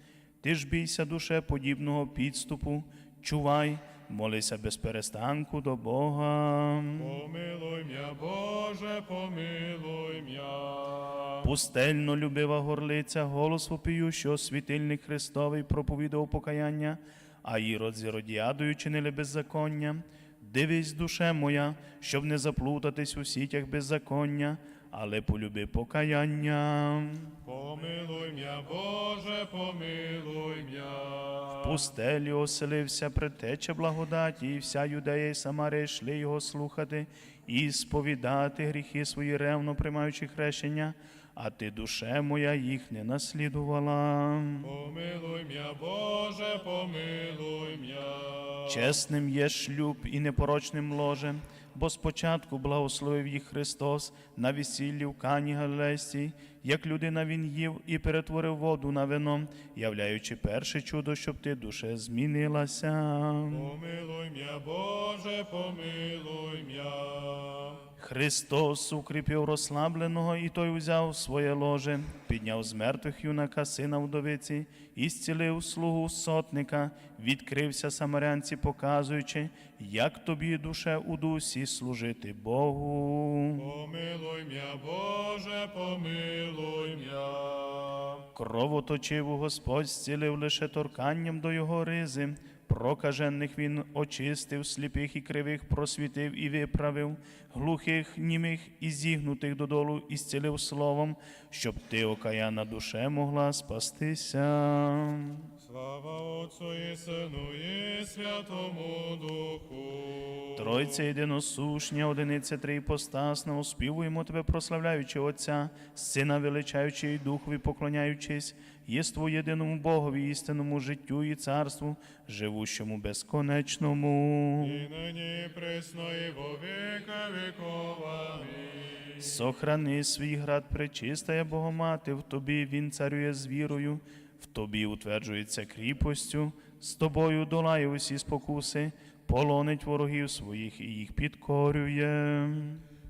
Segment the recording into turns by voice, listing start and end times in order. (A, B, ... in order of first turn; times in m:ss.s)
0:00.4-0:07.2 A
0:07.0-0:11.5 B
0:11.4-0:27.4 A
0:27.4-0:31.8 B
0:31.6-0:44.7 A
0:44.6-0:49.0 B
0:48.7-1:03.7 A
1:03.5-1:07.8 B
1:08.0-1:23.6 A
1:23.5-1:28.2 B
1:28.3-1:45.5 A
1:45.6-1:51.0 B
1:50.6-2:04.9 A
2:04.6-2:09.4 B
2:09.2-2:22.8 A